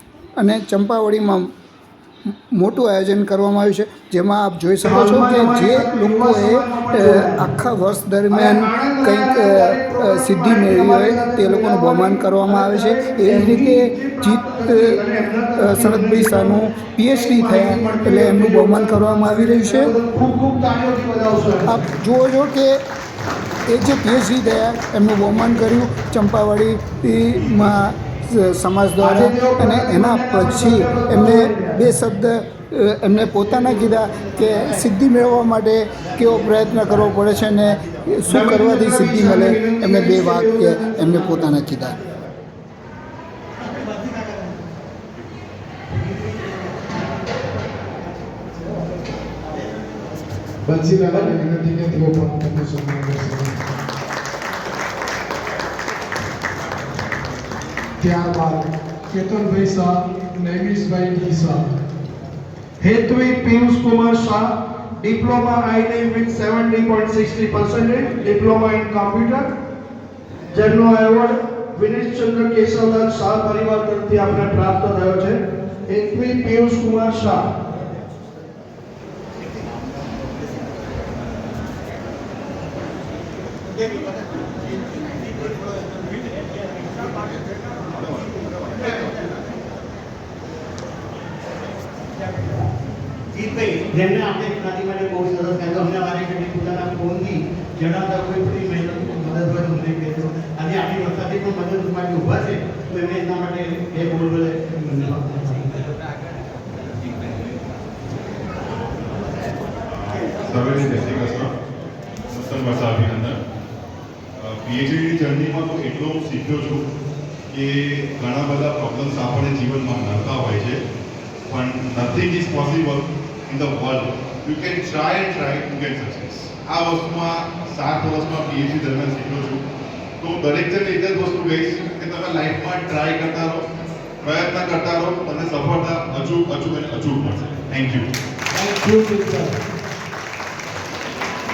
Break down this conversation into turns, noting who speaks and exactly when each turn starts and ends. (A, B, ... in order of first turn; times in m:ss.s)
0:00.4-0:01.5 A
0:02.5-0:15.0 A
0:04.8-0:07.4 B
0:08.3-0:21.9 B
0:15.6-0:19.9 A
0:21.7-0:22.8 A
0:23.7-0:42.0 A
0:29.0-0:31.9 B
0:36.1-0:37.1 C
0:38.3-0:41.6 B
0:43.7-0:44.5 C
0:45.9-0:47.2 C
0:50.6-0:53.6 D
0:58.0-1:01.8 D
1:02.8-1:09.5 B
1:10.5-1:17.5 B
1:33.3-1:45.8 C
1:49.9-1:51.5 E
1:52.3-1:53.4 E
1:54.4-1:56.8 E
1:57.5-2:00.8 E
2:01.5-2:09.6 E
2:10.2-2:13.6 E
2:14.2-2:18.1 E
2:18.6-2:19.5 B
2:18.6-2:19.4 C